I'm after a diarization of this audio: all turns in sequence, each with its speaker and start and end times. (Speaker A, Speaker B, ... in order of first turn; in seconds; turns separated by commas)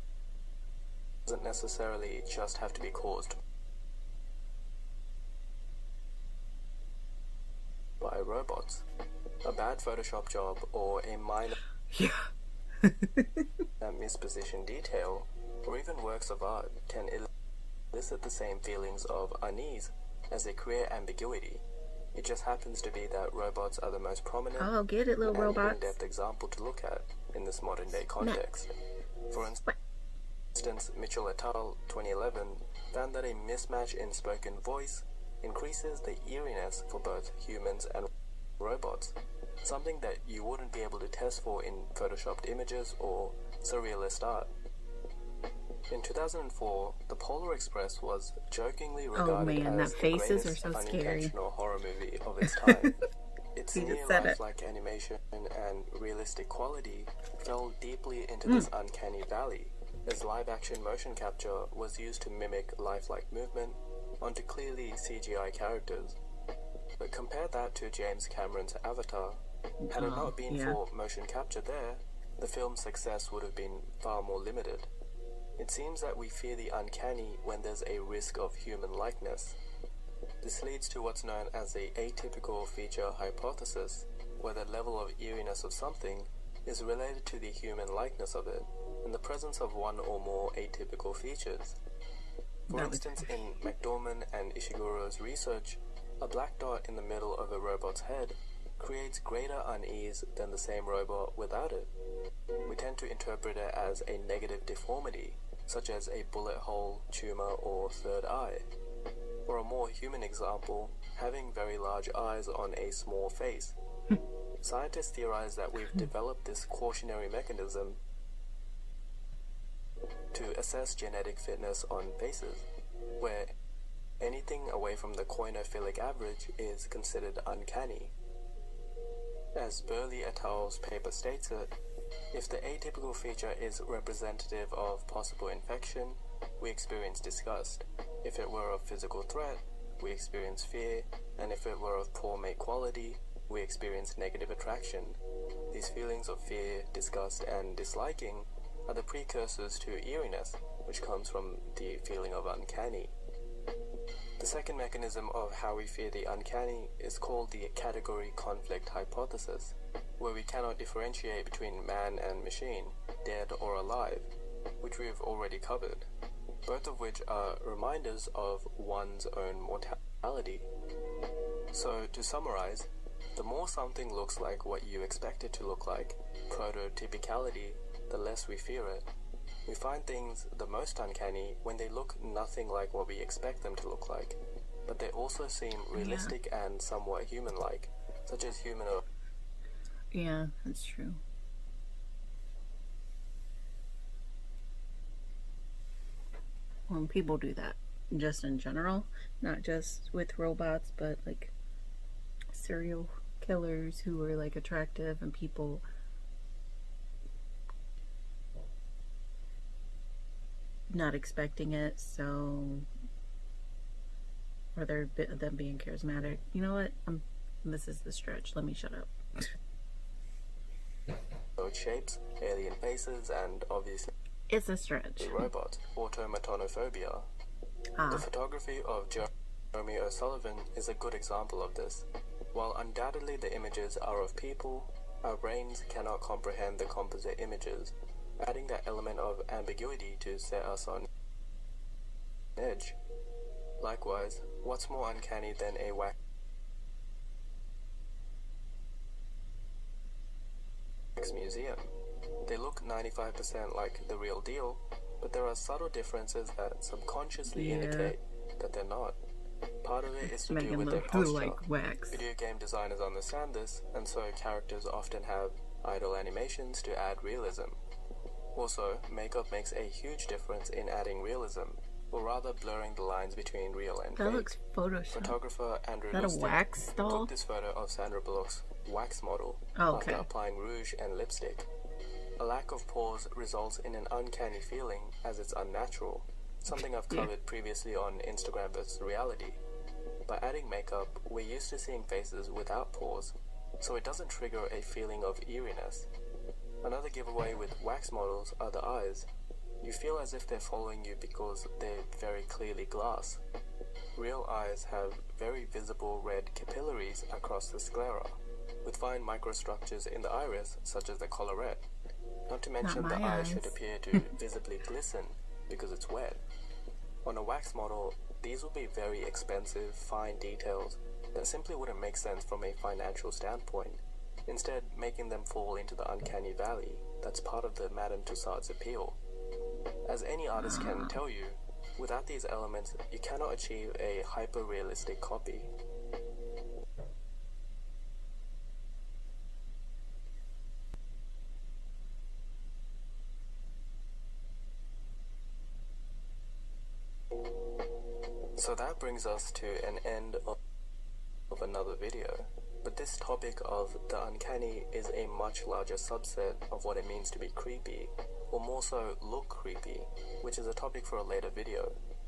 Speaker A: 1.3-3.4, Speaker A: 8.0-8.8, Speaker A: 9.4-11.6, Speaker B: 11.9-12.3, Speaker B: 12.8-13.5, Speaker A: 13.8-17.3, Speaker A: 17.9-24.7, Speaker B: 24.6-25.9, Speaker A: 25.3-28.8, Speaker A: 29.3-29.6, Speaker A: 30.6-44.5, Speaker A: 45.9-53.0, Speaker B: 49.1-51.3, Speaker B: 52.5-52.9, Speaker A: 53.5-66.2, Speaker B: 53.7-54.4, Speaker A: 67.0-69.4, Speaker B: 69.8-70.8, Speaker A: 69.9-74.9, Speaker A: 75.6-79.6, Speaker A: 80.4-91.8, Speaker A: 92.7-101.9, Speaker B: 92.7-93.3, Speaker A: 102.7-108.7, Speaker A: 109.5-113.8, Speaker A: 114.6-118.0, Speaker A: 120.3-122.7, Speaker A: 123.2-123.5, Speaker A: 124.2-128.2, Speaker A: 129.6-131.7, Speaker A: 132.3-153.2, Speaker A: 154.4-166.1, Speaker A: 166.7-170.7, Speaker A: 171.7-179.1, Speaker A: 179.7-189.0, Speaker B: 185.9-186.3, Speaker B: 190.1-191.2, Speaker B: 196.9-201.5, Speaker B: 202.5-205.8, Speaker B: 210.9-212.9, Speaker B: 214.8-219.1, Speaker A: 221.6-224.1, Speaker B: 224.5-225.5, Speaker A: 225.2-227.3, Speaker B: 228.0-228.3, Speaker A: 228.1-241.1, Speaker A: 242.6-243.0, Speaker A: 243.8-246.2, Speaker A: 251.2-251.9, Speaker A: 252.4-259.2, Speaker B: 257.5-258.1, Speaker A: 259.8-261.6, Speaker B: 260.3-262.2, Speaker A: 262.1-267.8, Speaker A: 268.6-274.6, Speaker B: 274.2-275.4, Speaker A: 275.1-281.7, Speaker B: 276.1-277.3, Speaker B: 279.8-280.3, Speaker A: 282.4-289.6, Speaker A: 290.3-296.1, Speaker A: 296.8-299.3, Speaker A: 299.8-303.4, Speaker A: 304.2-311.8, Speaker A: 312.5-316.4, Speaker B: 312.8-313.7, Speaker A: 317.2-329.2, Speaker A: 330.1-335.7, Speaker B: 330.6-331.2, Speaker A: 348.6-350.6, Speaker A: 351.5-362.0